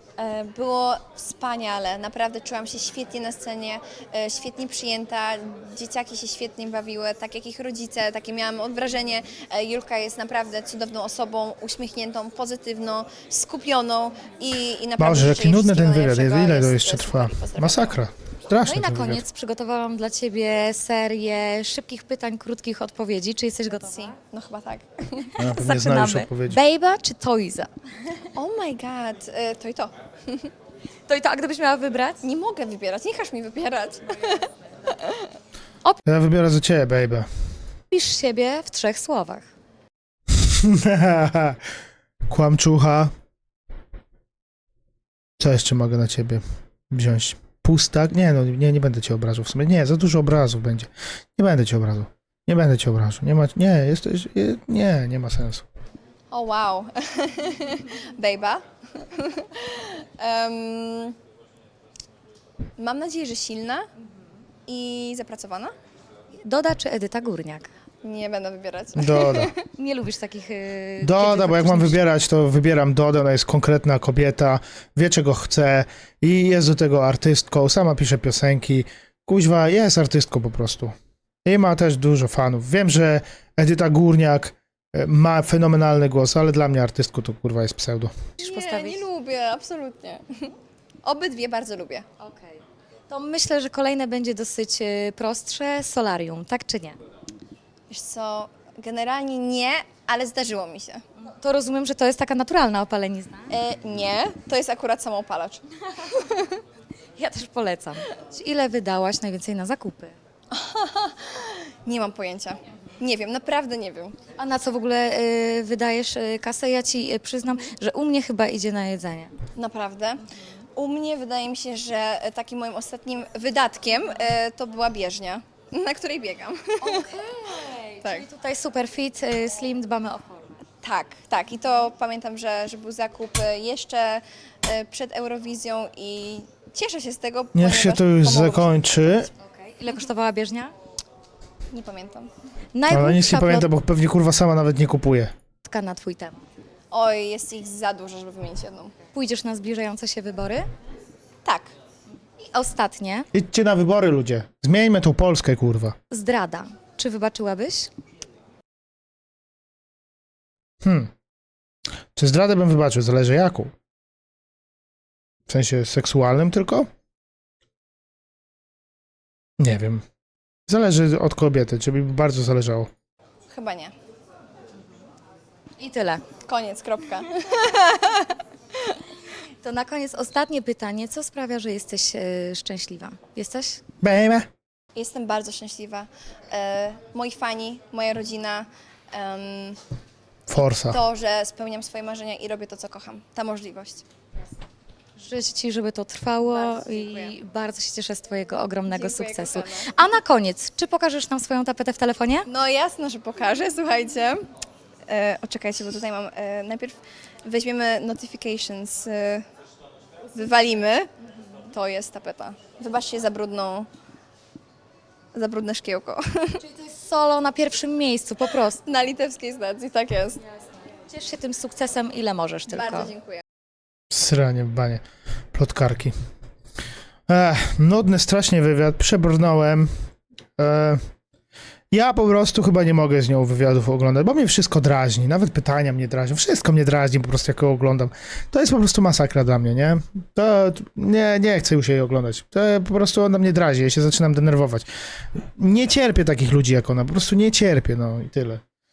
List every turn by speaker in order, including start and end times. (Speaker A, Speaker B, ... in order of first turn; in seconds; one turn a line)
Speaker A: 0.2-17.9
Speaker B: 15.0-19.2
Speaker C: 18.6-24.1
Speaker A: 23.9-25.3
Speaker B: 25.4-26.6
Speaker C: 25.4-27.7
Speaker A: 28.3-30.5
Speaker C: 31.1-32.2
Speaker A: 32.2-35.3
Speaker B: 36.0-37.3
Speaker C: 37.9-39.5
Speaker B: 40.3-41.6
Speaker B: 42.3-43.1
Speaker B: 45.4-55.6
Speaker A: 56.3-61.2
Speaker A: 62.8-63.9
Speaker A: 64.7-65.7
Speaker C: 66.4-67.7
Speaker A: 68.0-69.6
Speaker B: 69.0-69.5
Speaker C: 69.7-72.0
Speaker B: 71.0-80.9
Speaker B: 81.4-88.2
Speaker C: 88.4-89.0
Speaker A: 88.4-92.1
Speaker C: 92.2-97.0
Speaker A: 97.9-101.0
Speaker C: 101.2-103.5
Speaker A: 103.5-106.6
Speaker C: 107.2-110.1
Speaker A: 110.5-114.2
Speaker C: 114.4-119.3
Speaker A: 119.5-127.2
Speaker C: 126.8-130.6
Speaker A: 130.8-139.3
Speaker B: 137.5-139.3
Speaker C: 139.4-140.7
Speaker A: 141.7-142.3
Speaker C: 142.7-143.7
Speaker B: 142.9-145.3
Speaker C: 145.6-146.4
Speaker A: 146.9-148.9
Speaker C: 149.1-150.7
Speaker A: 151.4-151.7
Speaker C: 152.5-153.3
Speaker B: 153.3-156.0
Speaker C: 156.1-157.9
Speaker B: 160.8-161.1
Speaker B: 162.1-163.7
Speaker B: 165.5-166.9
Speaker B: 169.6-170.0
Speaker B: 170.7-172.9
Speaker A: 173.5-173.9
Speaker C: 175.8-176.2
Speaker A: 176.4-179.0
Speaker C: 179.6-183.8
Speaker B: 184.0-184.5
Speaker A: 184.9-189.8
Speaker B: 190.5-191.0
Speaker A: 190.9-194.0
Speaker C: 195.2-202.5
Speaker A: 196.4-197.3
Speaker A: 198.9-199.9
Speaker A: 202.5-204.4
Speaker A: 205.1-209.5
Speaker A: 210.3-211.1
Speaker A: 211.6-213.9
Speaker A: 215.3-216.6
Speaker C: 216.6-218.8
Speaker A: 218.8-220.4
Speaker C: 221.0-223.1
Speaker A: 222.7-223.4
Speaker B: 224.1-225.0
Speaker B: 225.5-226.1
Speaker B: 227.3-229.9
Speaker B: 230.6-231.0
Speaker B: 231.9-244.9
Speaker B: 245.5-248.6